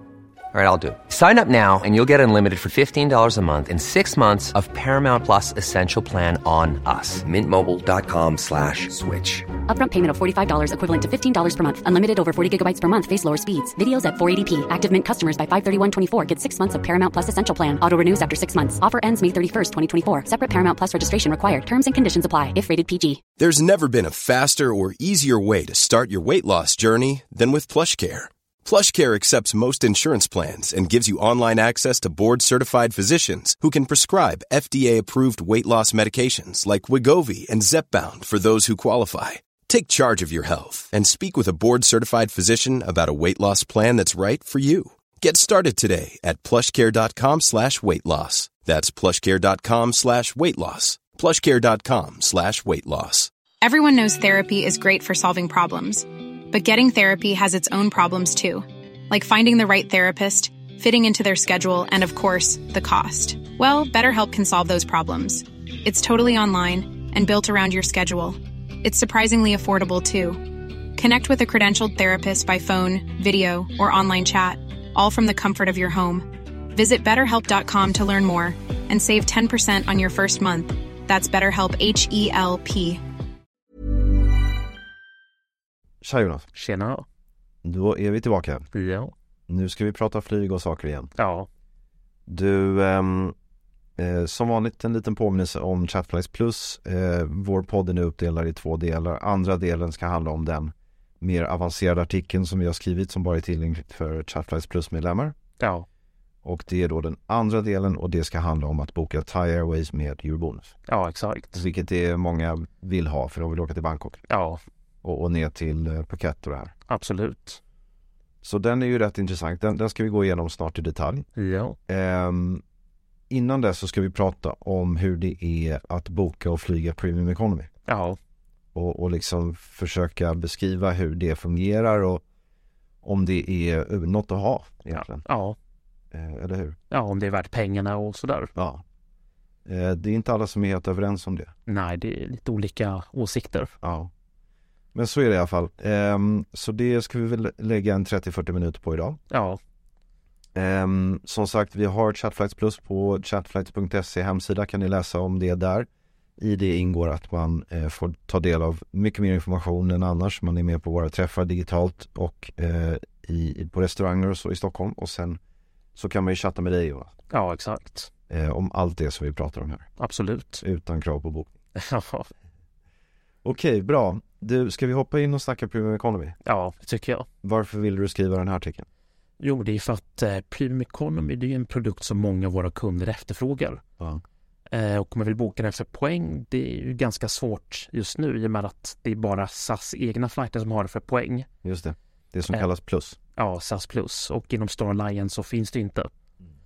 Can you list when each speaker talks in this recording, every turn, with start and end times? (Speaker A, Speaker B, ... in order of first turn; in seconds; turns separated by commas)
Speaker A: 0.5-9.5, Speaker B: 9.7-23.2, Speaker C: 23.4-53.3, Speaker D: 53.6-83.0, Speaker E: 86.0-86.5, Speaker F: 86.5-87.0, Speaker E: 87.6-88.7, Speaker F: 88.7-89.1, Speaker E: 89.5-91.1, Speaker F: 91.2-91.5, Speaker E: 92.3-93.3, Speaker E: 94.0-105.3, Speaker F: 105.6-105.8, Speaker E: 106.4-110.7, Speaker F: 110.9-111.6, Speaker E: 111.5-114.2, Speaker F: 114.3-114.6, Speaker E: 115.0-116.7, Speaker F: 116.9-117.6, Speaker E: 118.4-121.2, Speaker F: 121.3-121.8, Speaker E: 121.9-122.6, Speaker E: 123.3-127.7, Speaker F: 127.9-128.2, Speaker E: 128.7-132.2, Speaker E: 133.0-135.2, Speaker F: 134.9-135.6, Speaker E: 136.1-136.8, Speaker F: 136.9-138.5, Speaker E: 138.6-138.8, Speaker E: 139.7-141.5, Speaker F: 141.7-143.7, Speaker E: 143.8-144.1, Speaker E: 144.9-149.2, Speaker F: 149.3-149.6, Speaker E: 150.5-165.4, Speaker E: 165.9-167.1, Speaker F: 167.3-168.1, Speaker E: 168.3-169.9, Speaker F: 170.0-170.6, Speaker E: 170.6-171.5, Speaker F: 171.8-172.3, Speaker E: 173.4-176.4, Speaker F: 176.4-177.3, Speaker E: 177.4-178.8, Speaker F: 179.4-183.8, Speaker F: 184.7-191.5, Speaker E: 191.6-193.2, Speaker F: 193.3-196.1